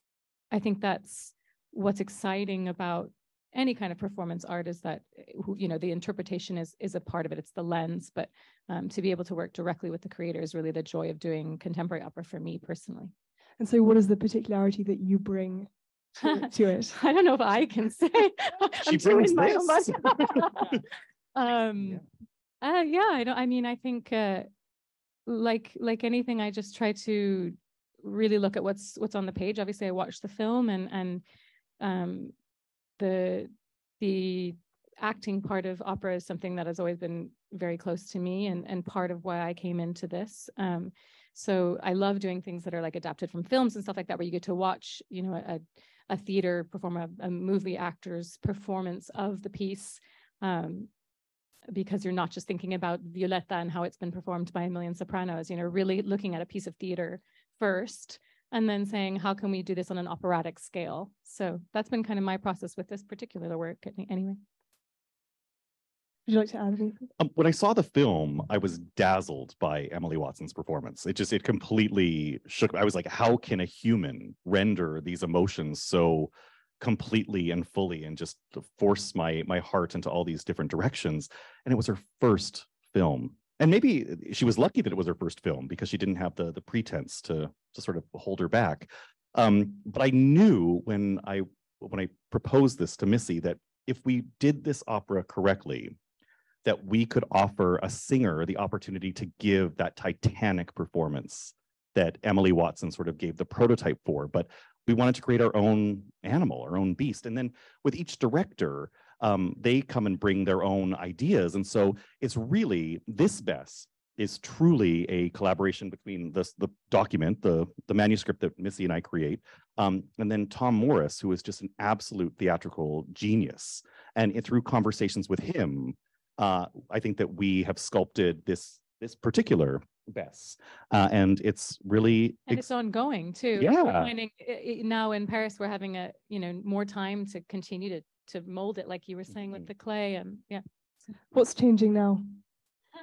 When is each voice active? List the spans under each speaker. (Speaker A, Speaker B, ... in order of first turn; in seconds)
Speaker A: 0.5-13.1, 16.2-20.8, 21.4-22.0, 22.6-24.5, 25.3-31.2, 31.8-32.3, 33.0-50.9, 51.7-64.4, 132.5-140.6
Speaker B: 13.6-16.9, 66.3-67.1, 141.3-142.2
Speaker C: 18.8-20.8, 67.2-96.0, 96.7-132.7, 133.6-134.1